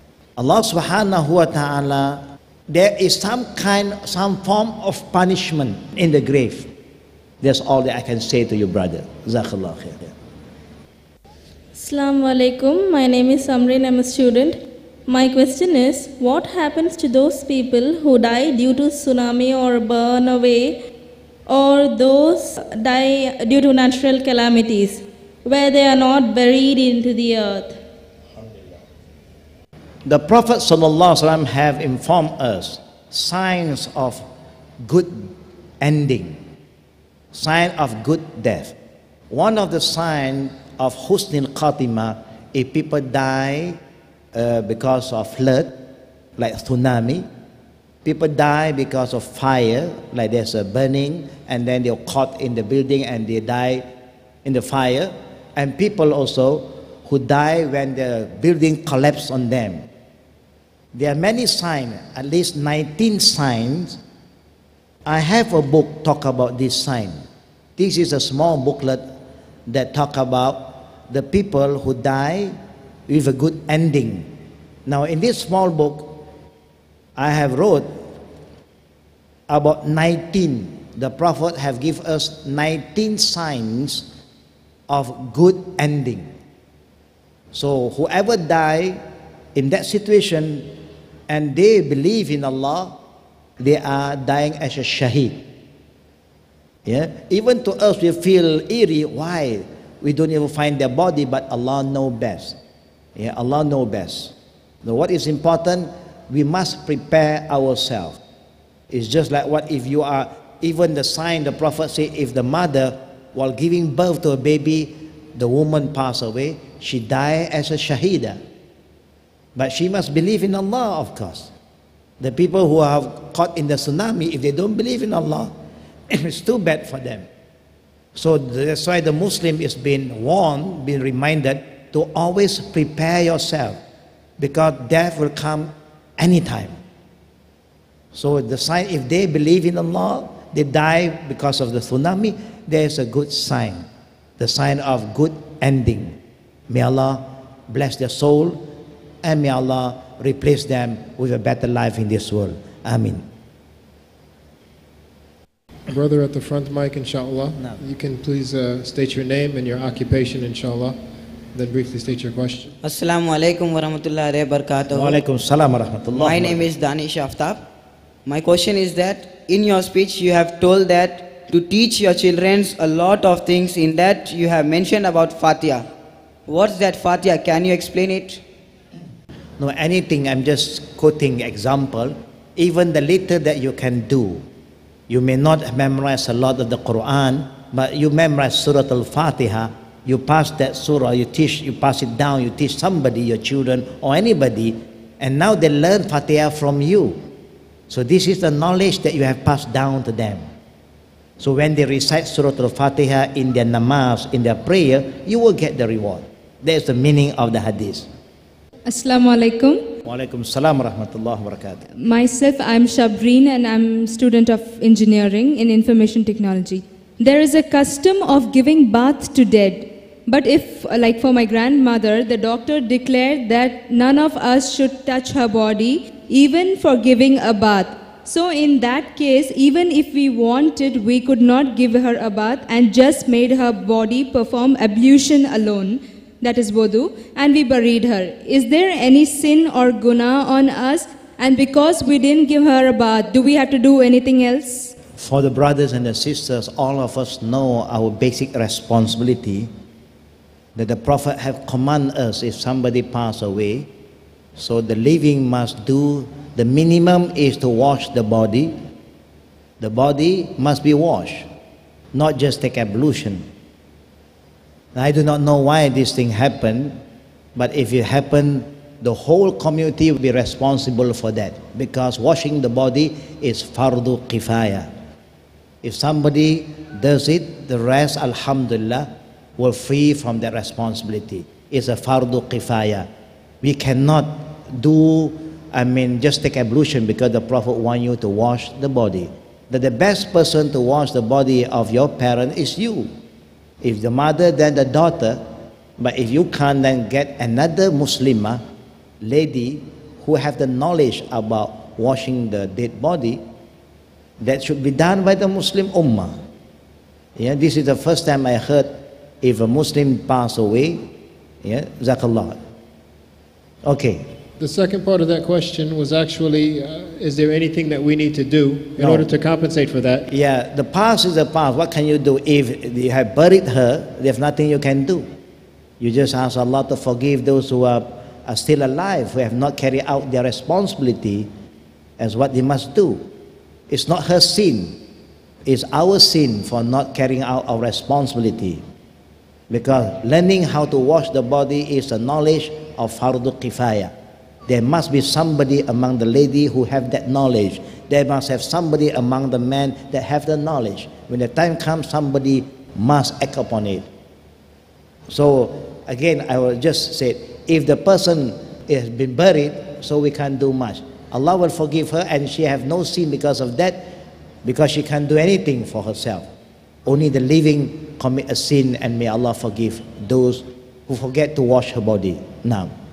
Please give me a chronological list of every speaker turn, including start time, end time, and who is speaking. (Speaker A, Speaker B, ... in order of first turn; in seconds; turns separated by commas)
Speaker A: 0.4-6.7, Speaker A: 7.4-10.1, Speaker B: 11.8-20.8, Speaker B: 21.5-27.8, Speaker A: 30.1-34.2, Speaker A: 34.8-36.4, Speaker A: 37.3-38.8, Speaker A: 39.3-43.8, Speaker A: 44.3-45.8, Speaker A: 46.4-47.3, Speaker A: 48.0-53.9, Speaker A: 54.5-59.9, Speaker A: 60.9-64.0, Speaker A: 65.1-67.2, Speaker A: 67.8-69.0, Speaker A: 69.7-72.5, Speaker A: 73.1-74.3, Speaker A: 74.9-76.2, Speaker A: 77.2-78.0, Speaker A: 79.5-84.1, Speaker A: 84.9-86.3, Speaker A: 87.5-89.0, Speaker A: 89.5-90.7, Speaker A: 91.3-93.0, Speaker A: 93.6-95.4, Speaker A: 96.9-102.6, Speaker A: 103.2-108.2, Speaker A: 108.9-118.4, Speaker A: 119.6-121.5, Speaker A: 122.2-125.5, Speaker A: 126.1-127.3, Speaker A: 128.2-133.8, Speaker A: 134.4-136.8, Speaker A: 138.1-143.9, Speaker A: 144.4-146.2, Speaker A: 146.7-148.7, Speaker A: 149.2-153.2, Speaker C: 155.9-161.0, Speaker C: 161.5-162.7, Speaker D: 162.8-165.2, Speaker A: 164.9-166.7, Speaker D: 166.1-167.6, Speaker D: 168.3-175.9, Speaker D: 176.5-178.4, Speaker A: 179.6-184.4, Speaker A: 185.1-197.2, Speaker A: 197.9-200.4, Speaker A: 201.4-208.1, Speaker E: 208.9-209.8, Speaker A: 210.1-211.9, Speaker E: 212.0-244.9, Speaker A: 245.2-249.7, Speaker A: 250.8-253.9, Speaker A: 254.6-258.8, Speaker A: 259.8-261.5, Speaker A: 262.1-263.4, Speaker A: 264.9-267.0, Speaker A: 267.6-274.9, Speaker A: 275.8-283.1, Speaker A: 283.6-293.1, Speaker A: 293.8-295.4, Speaker A: 296.0-298.6, Speaker A: 299.2-303.4, Speaker A: 304.4-306.4, Speaker A: 307.4-311.0, Speaker A: 311.6-312.6, Speaker A: 313.9-314.3, Speaker C: 314.6-320.3, Speaker A: 319.0-319.3, Speaker A: 320.3-325.3, Speaker A: 326.0-331.5, Speaker A: 332.2-333.2, Speaker A: 333.9-335.0, Speaker A: 335.7-338.8, Speaker A: 339.7-344.1, Speaker A: 344.7-354.1, Speaker A: 355.3-364.1, Speaker A: 364.6-366.5, Speaker A: 367.1-372.9